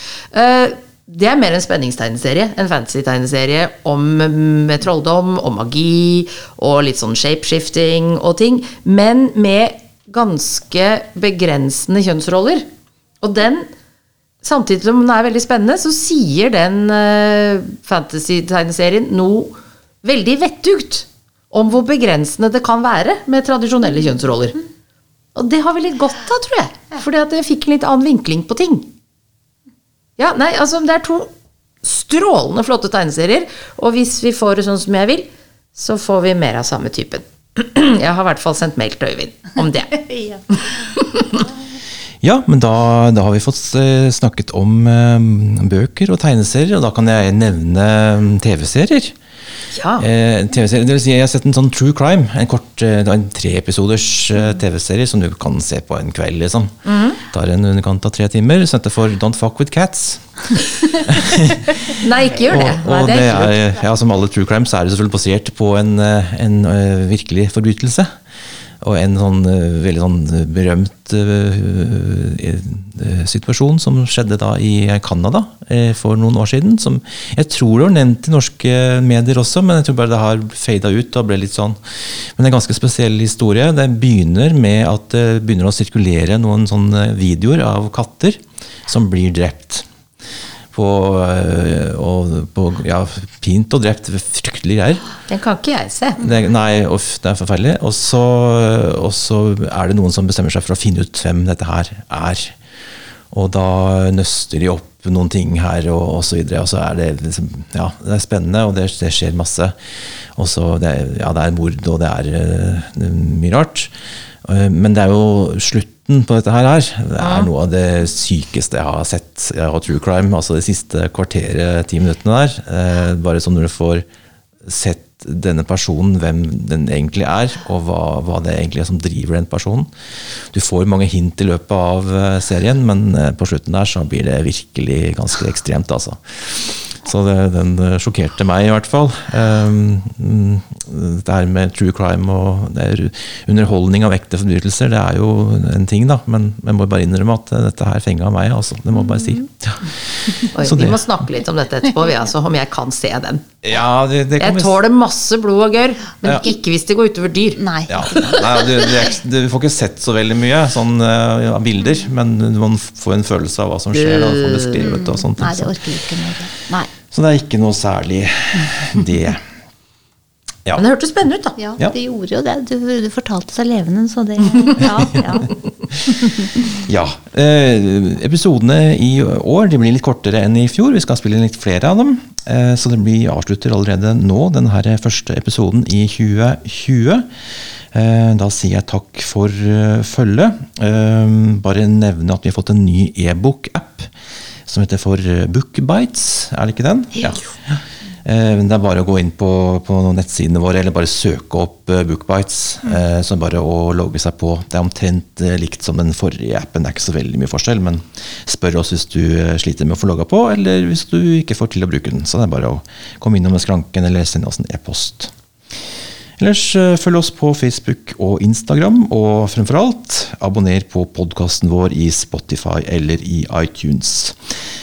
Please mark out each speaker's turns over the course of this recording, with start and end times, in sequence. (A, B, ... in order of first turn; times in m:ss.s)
0:00.3-0:12.7 A
0:13.2-0:13.7 A
0:14.4-0:24.6 A
0:25.3-0:28.9 A
0:30.2-0:31.3 A
0:31.8-0:40.0 A
0:40.0-0:40.4 B
0:40.5-0:41.4 A
0:42.2-0:49.1 C
0:49.7-0:50.0 A
0:50.0-1:00.3 C
0:56.8-0:57.2 A
1:00.9-1:01.7 C
1:02.0-1:03.5 A
1:02.4-1:08.1 C
1:08.8-1:29.8 C
1:30.7-1:35.1 C
1:35.3-1:36.2 A
1:36.2-1:42.6 C
1:43.3-1:49.7 C
1:50.4-1:53.9 C
1:54.4-2:04.0 C
1:57.2-1:57.5 A
2:04.6-2:09.9 C
2:10.5-2:31.1 C
2:30.5-2:33.4 A
2:33.6-2:34.8 C
2:34.4-2:37.6 A
2:37.6-2:39.1 B
2:37.9-2:45.8 C
2:43.9-2:45.0 A
2:44.8-2:46.9 B
2:47.1-2:49.4 C
2:50.8-2:51.6 A
2:51.6-2:55.5 B
2:56.0-2:56.5 B
2:56.7-3:07.3 C
3:07.9-3:14.1 C
3:14.7-3:35.3 C
3:36.4-3:44.4 C